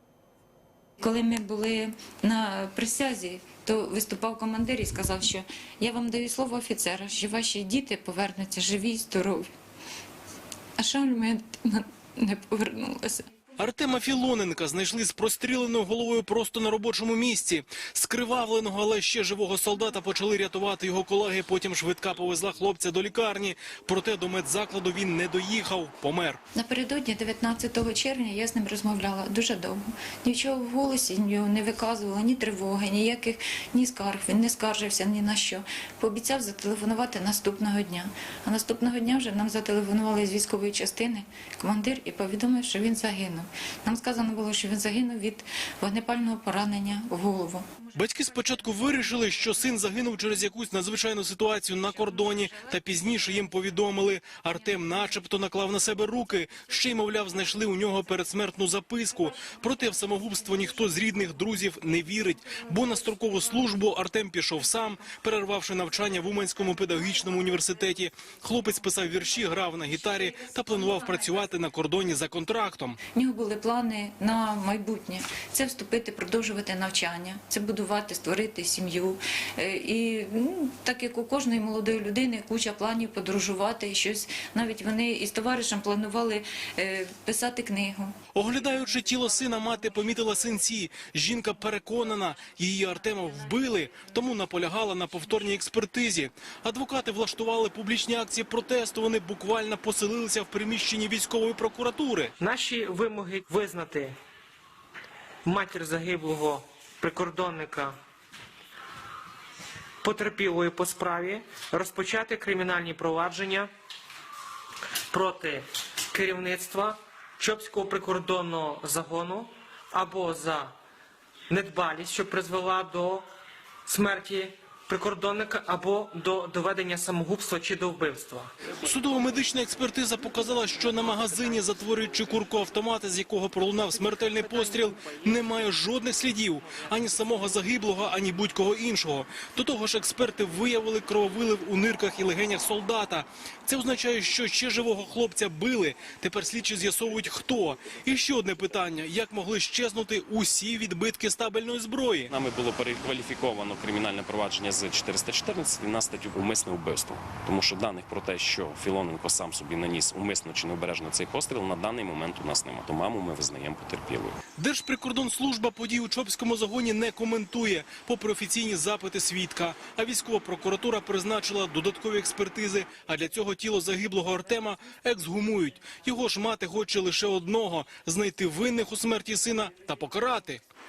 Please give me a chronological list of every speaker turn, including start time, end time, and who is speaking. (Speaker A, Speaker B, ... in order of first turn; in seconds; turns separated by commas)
Speaker A: 1.0-9.5, Speaker A: 10.8-13.2, Speaker B: 13.6-26.4, Speaker A: 26.5-47.7, Speaker B: 47.9-73.0, Speaker A: 73.1-88.1, Speaker B: 88.3-102.3, Speaker C: 102.4-104.2, Speaker C: 105.4-107.9, Speaker C: 110.0-113.7, Speaker C: 115.1-120.7, Speaker C: 121.5-123.3, Speaker C: 123.8-128.5, Speaker B: 128.8-152.3, Speaker D: 152.3-164.4, Speaker B: 164.6-180.6